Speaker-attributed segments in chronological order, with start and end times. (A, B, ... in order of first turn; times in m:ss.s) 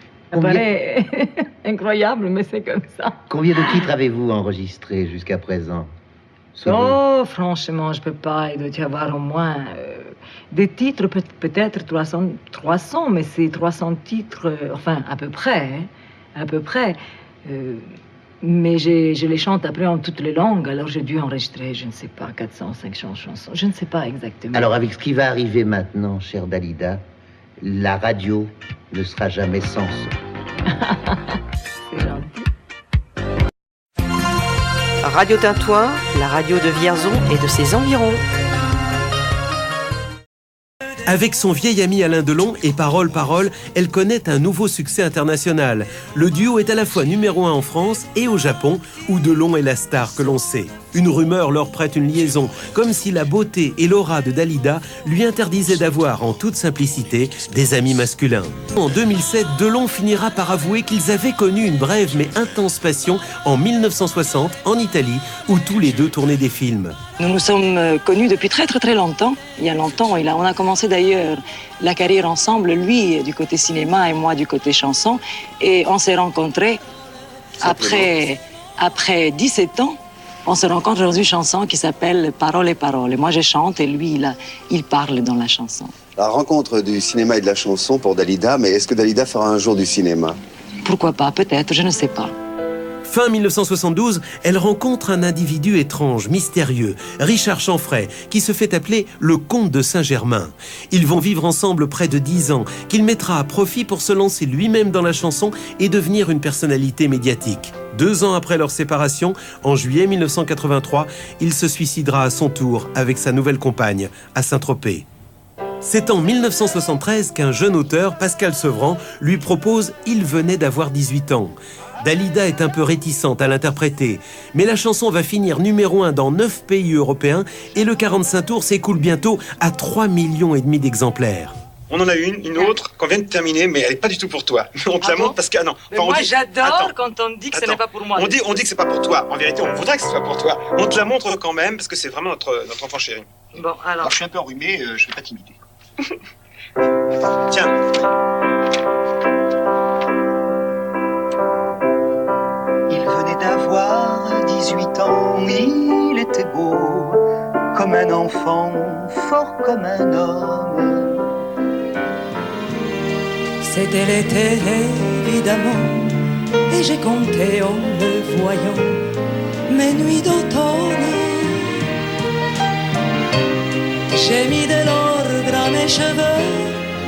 0:00.3-0:03.8 A
0:00.3-0:00.6 B
0:03.3-0:05.9 B
0:06.6-0:07.0 B
0:06.6-0:24.7 A
0:24.5-0:27.0 B
0:27.6-0:30.1 B
0:30.7-0:31.4 A
0:31.9-0:32.4 A
0:35.0-0:38.2 C
0:41.1-1:07.0 D
1:07.2-1:16.8 E
1:17.6-1:25.9 E
1:17.6-1:18.0 F
1:26.2-1:30.4 F
1:30.8-1:32.3 E
1:33.0-1:55.0 D
1:55.8-2:11.6 D
2:11.9-2:17.0 G
2:16.0-2:16.9 H
2:17.5-2:23.3 G
2:17.5-2:18.2 A
2:24.0-2:25.6 G
2:27.5-2:27.7 G
2:32.9-2:37.2 G
2:37.7-2:41.1 G
2:43.6-2:46.2 H
2:46.7-2:49.0 H
2:49.7-2:51.8 H
2:54.1-2:56.8 H